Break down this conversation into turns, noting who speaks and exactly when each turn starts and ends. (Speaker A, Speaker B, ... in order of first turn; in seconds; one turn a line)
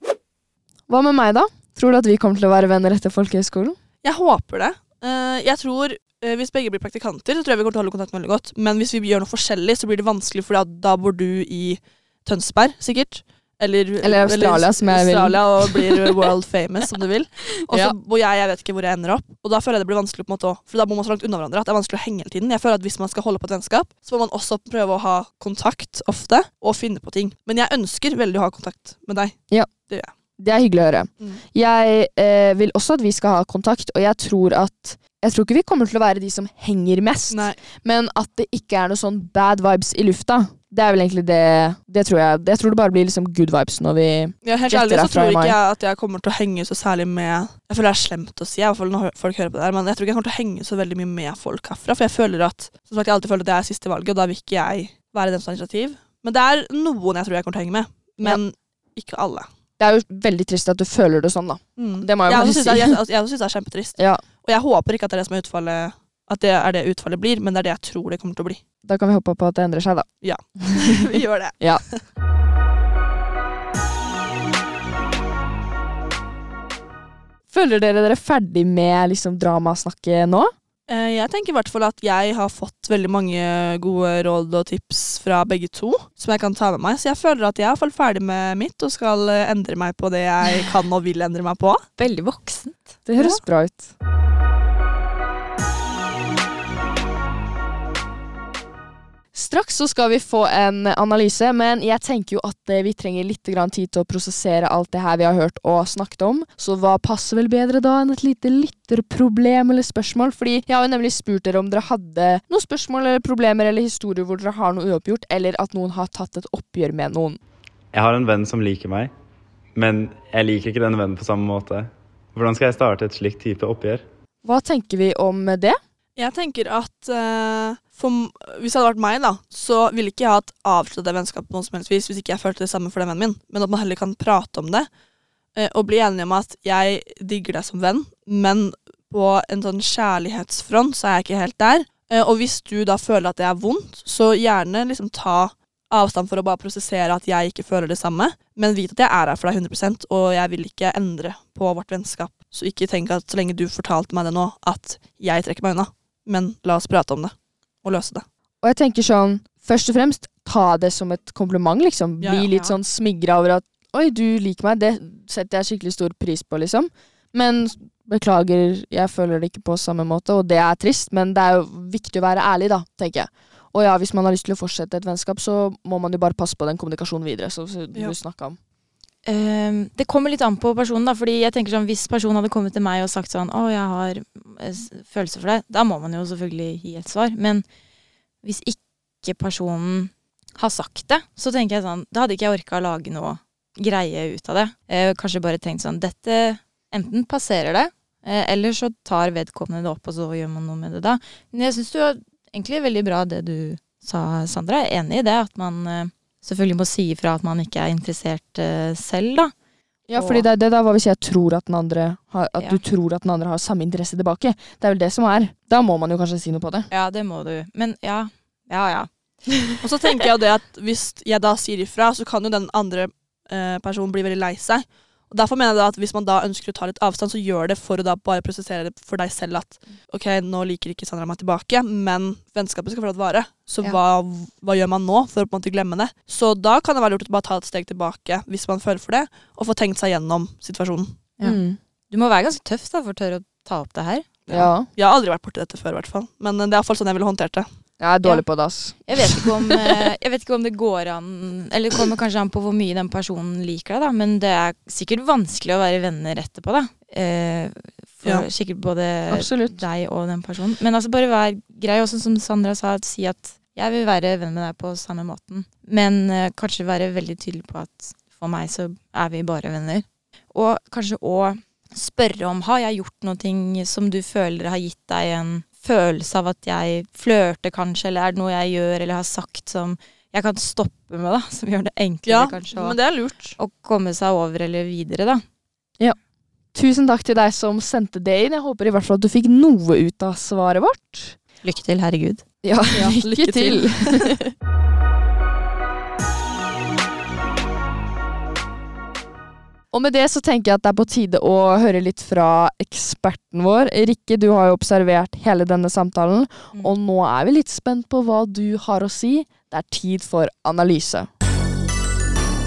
Speaker A: 0.9-3.8
Speaker B: 4.0-30.1
Speaker A: 14.0-16.2
Speaker A: 17.7-17.9
Speaker A: 30.4-45.6
Speaker B: 37.3-37.6
Speaker B: 44.4-59.5
Speaker A: 59.8-63.0
Speaker B: 61.8-68.6
Speaker A: 64.0-64.2
Speaker A: 68.8-70.9
Speaker B: 70.2-72.0
Speaker A: 71.6-71.8
Speaker A: 77.5-80.5
Speaker B: 80.9-91.8
Speaker C: 92.0-93.0
Speaker A: 93.1-93.9
Speaker A: 99.3-117.4
Speaker D: 117.9-119.1
Speaker D: 119.7-124.0
Speaker A: 124.4-125.8
Speaker B: 126.2-134.9
Speaker B: 135.6-158.2
Speaker A: 158.6-178.6
Speaker B: 162.2-162.7
Speaker C: 179.2-187.6
Speaker C: 188.4-209.5
Speaker A: 210.1-216.9
Speaker C: 210.2-210.4
Speaker C: 216.9-219.1
Speaker B: 219.8-241.2
Speaker C: 241.4-244.3
Speaker A: 241.4-241.8
Speaker B: 244.5-247.7
Speaker A: 244.5-244.9
Speaker A: 248.0-249.0
Speaker C: 249.0-283.0
Speaker A: 259.3-259.8
Speaker B: 282.2-283.6
Speaker C: 283.6-285.4
Speaker A: 286.7-291.4
Speaker C: 291.6-292.4
Speaker A: 292.6-294.5
Speaker B: 292.9-294.3
Speaker A: 299.9-311.3